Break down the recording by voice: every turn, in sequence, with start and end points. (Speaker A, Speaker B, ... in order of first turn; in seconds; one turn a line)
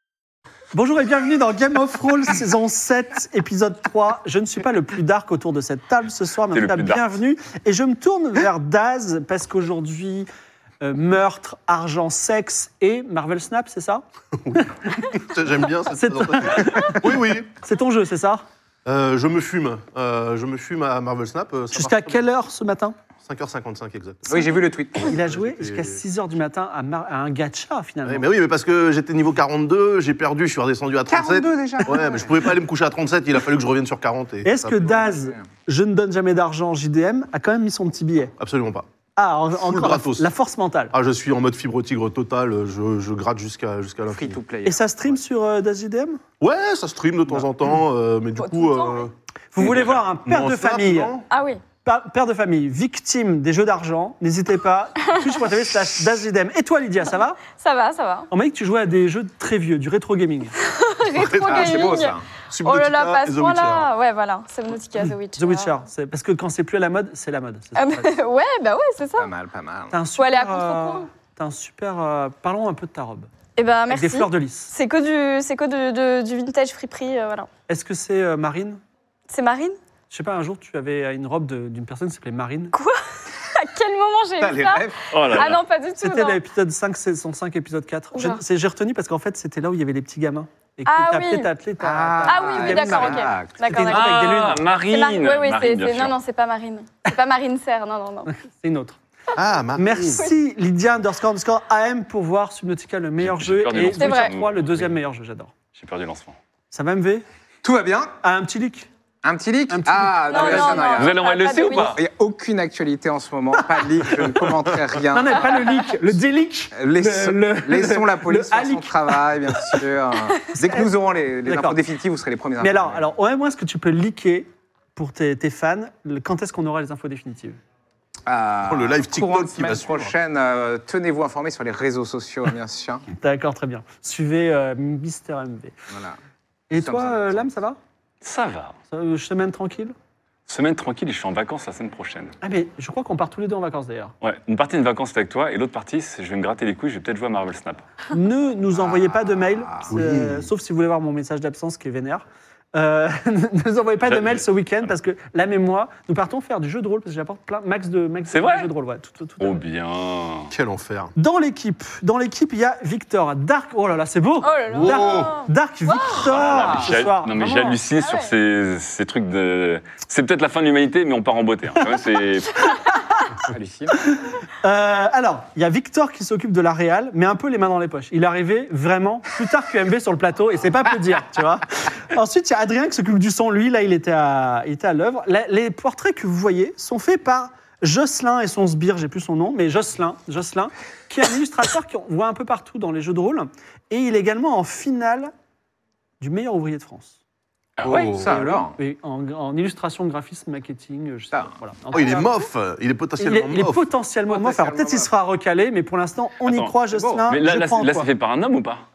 Speaker A: 0.7-10.3
Speaker B: 6.5-7.0
Speaker A: 10.8-15.1
Speaker C: 14.4-17.5
Speaker A: 15.9-18.4
Speaker C: 18.8-22.2
Speaker A: 21.7-22.9
Speaker C: 23.2-26.0
Speaker D: 24.3-25.2
Speaker A: 25.0-28.2
Speaker C: 28.1-34.9
Speaker D: 31.1-32.3
Speaker A: 34.4-38.3
Speaker D: 34.8-35.5
Speaker C: 38.4-38.9
Speaker A: 39.1-40.9
Speaker C: 39.6-40.3
Speaker C: 40.9-44.4
Speaker D: 44.1-45.2
Speaker A: 44.6-46.2
Speaker C: 46.4-51.2
Speaker E: 48.4-49.1
Speaker A: 49.5-51.2
Speaker E: 51.3-51.6
Speaker A: 51.8-57.4
Speaker E: 57.5-58.3
Speaker A: 58.3-60.5
Speaker E: 60.6-65.7
Speaker C: 61.1-63.9
Speaker D: 61.4-62.2
Speaker A: 65.4-68.1
Speaker E: 67.7-69.3
Speaker D: 69.2-69.9
Speaker A: 69.9-73.3
Speaker E: 70.2-71.1
Speaker E: 73.5-77.5
Speaker A: 73.9-74.7
Speaker A: 77.7-78.8
Speaker E: 79.3-79.8
Speaker A: 80.1-82.7
Speaker E: 82.7-86.4
Speaker D: 84.4-85.5
Speaker B: 85.1-85.6
Speaker A: 86.0-94.6
Speaker E: 88.1-88.4
Speaker E: 90.9-91.5
Speaker D: 91.8-93.6
Speaker E: 92.2-98.3
Speaker B: 93.9-96.2
Speaker A: 98.2-99.0
Speaker C: 99.3-100.2
Speaker A: 99.7-105.5
Speaker B: 103.2-104.9
Speaker E: 103.8-104.3
Speaker B: 105.7-106.4
Speaker A: 106.7-107.2
Speaker D: 107.6-108.1
Speaker A: 108.2-108.9
Speaker D: 109.2-115.7
Speaker A: 109.7-110.9
Speaker E: 110.3-112.0
Speaker B: 110.8-112.0
Speaker A: 115.1-119.8
Speaker D: 116.7-123.0
Speaker A: 121.4-121.8
Speaker A: 122.6-127.6
Speaker D: 128.3-133.0
Speaker C: 128.6-130.1
Speaker A: 133.1-135.7
Speaker D: 135.9-136.2
Speaker A: 136.7-137.8
Speaker D: 136.7-137.5
Speaker B: 138.2-138.7
Speaker A: 138.9-139.9
Speaker B: 140.5-142.3
Speaker A: 142.4-144.1
Speaker B: 144.2-147.8
Speaker A: 148.1-159.6
Speaker D: 148.7-149.9
Speaker C: 149.9-150.5
Speaker B: 154.1-154.4
Speaker B: 158.3-158.7
Speaker B: 159.4-160.5
Speaker C: 160.5-161.1
Speaker A: 161.2-167.8
Speaker E: 164.4-166.3
Speaker C: 164.7-165.3
Speaker B: 166.1-172.7
Speaker E: 168.0-168.3
Speaker A: 172.7-173.3
Speaker D: 173.4-174.1
Speaker A: 174.1-195.3
Speaker A: 196.2-197.2
Speaker B: 197.8-198.2
Speaker D: 197.8-198.8
Speaker C: 197.9-198.2
Speaker A: 198.2-202.4
Speaker C: 201.9-203.9
Speaker A: 203.2-208.1
Speaker D: 204.3-205.1
Speaker B: 206.4-208.8
Speaker D: 206.9-207.2